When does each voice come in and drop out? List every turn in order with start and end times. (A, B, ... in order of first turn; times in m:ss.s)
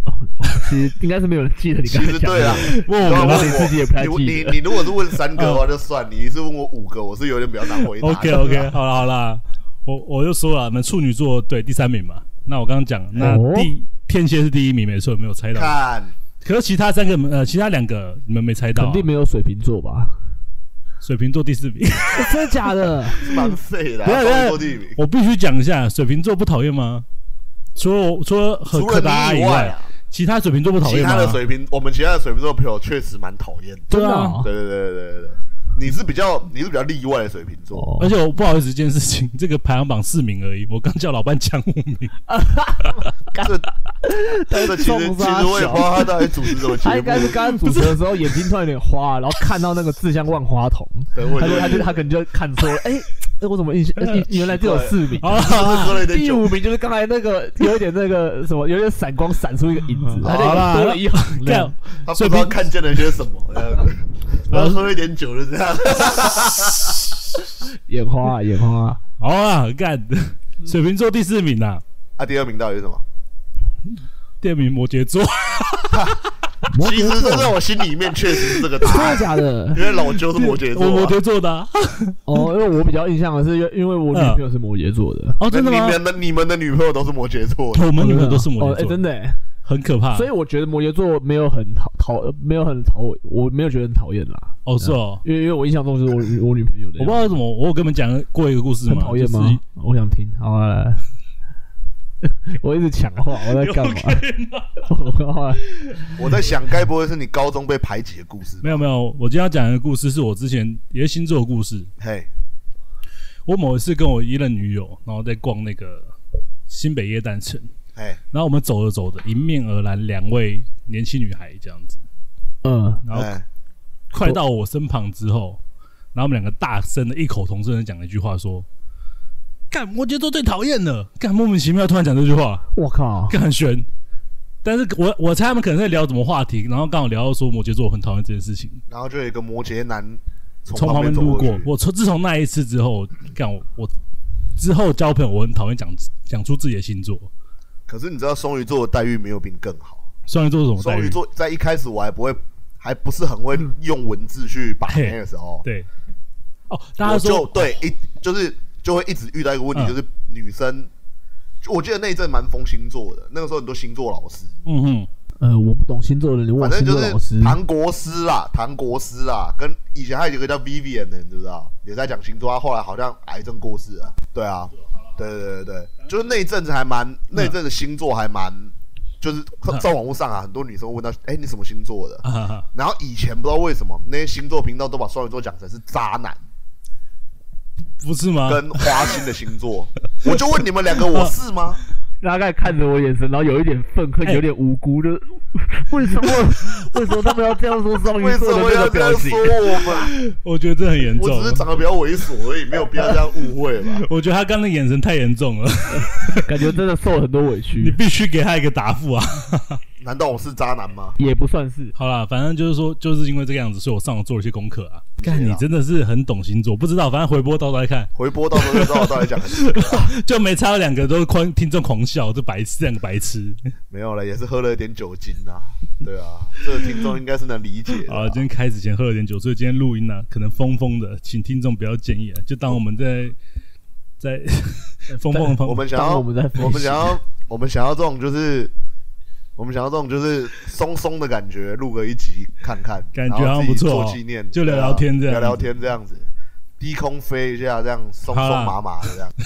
0:00.4-0:04.6 A
0:01.9-0:08.8 B
0:02.4-0:03.7 C
0:05.3-0:05.6 C
0:08.0-0:15.7 C
0:13.2-0:13.7 A
0:15.5-0:16.1 B
0:16.4-0:19.1 C
0:18.8-0:20.2 A
0:21.0-0:22.7 C
0:22.1-0:23.3 A
0:23.1-0:25.0 B
0:24.0-0:27.1 C
0:27.8-0:31.4 C
0:28.7-0:29.9 B
0:30.8-0:37.9 B
0:33.9-0:34.5 A
0:33.9-0:34.4 C
0:37.7-0:38.1 A
0:38.0-0:42.2 C
0:42.3-0:43.5 A
0:43.3-0:43.7 B
0:44.0-0:46.1 A
0:44.5-0:47.4 B
0:46.8-1:01.7 A
0:47.6-0:48.4 C
0:51.1-0:52.0 B
0:54.5-0:56.6 B
0:55.2-0:56.1 C
1:00.1-1:02.6 C
1:00.2-1:00.7 B
1:02.0-1:06.9 B
1:07.9-1:09.0 A
1:09.2-1:11.8 C
1:12.2-1:13.0 B
1:14.4-1:16.1 C
1:16.7-1:17.6 A
1:16.8-1:21.2 B
1:18.4-1:19.2 C
1:18.8-1:19.8 A
1:19.9-1:22.4 C
1:22.3-1:25.4 A
1:24.1-1:24.4 C
1:25.4-1:26.0 C
1:25.5-1:28.0 B
1:27.7-1:29.0 C
1:28.0-1:29.4 A
1:29.6-1:30.3 C
1:30.1-1:37.3 A
1:34.6-1:35.2 C
1:37.0-1:39.6 C
1:38.9-1:41.0 A
1:42.2-1:44.2 A
1:43.4-1:44.9 C
1:44.9-1:45.6 A
1:45.8-1:46.2 C
1:46.2-1:48.8 B
1:48.6-1:51.9 C
1:52.0-1:52.3 B
1:53.5-1:56.1 C
1:56.7-1:57.7 C
1:58.3-2:02.0 C
2:02.6-2:03.0 A
2:03.0-2:03.3 C
2:03.1-2:03.5 B
2:04.1-2:05.6 C
2:06.1-2:08.7 C
2:09.7-2:12.7 C
2:12.8-2:13.4 A
2:13.3-2:13.9 C
2:14.6-2:18.8 C
2:18.9-2:21.7 B
2:20.7-2:23.9 C
2:24.6-2:27.3 C
2:27.9-2:30.1 B
2:30.3-2:31.2 C
2:30.8-2:35.7 B
2:34.9-2:35.9 C
2:36.7-2:37.8 C
2:37.0-2:40.9 B
2:41.6-2:44.6 B
2:44.7-2:45.1 C
2:45.4-2:47.6 A
2:46.6-3:06.4 B
3:02.2-3:02.7 C
3:08.0-3:09.2 C
3:08.5-3:11.8 B
3:10.2-3:11.4 C
3:12.2-3:19.6 A
3:16.9-3:17.2 C
3:18.0-3:20.1 B
3:19.9-3:21.7 C
3:21.1-3:24.1 B
3:24.0-3:26.7 C
3:26.0-3:28.0 A
3:27.8-3:29.8 C
3:30.0-3:31.2 B
3:31.2-3:31.9 A
3:32.0-3:43.6 C
3:35.2-3:35.6 B
3:38.2-3:40.1 B
3:43.9-3:48.5 B
3:48.0-3:53.4 C
3:54.2-3:55.9 C
3:55.1-3:57.2 A
3:55.6-3:58.7 B
3:59.6-4:06.3 B
4:03.2-4:05.7 C
4:06.8-4:09.3 B
4:08.3-4:08.8 C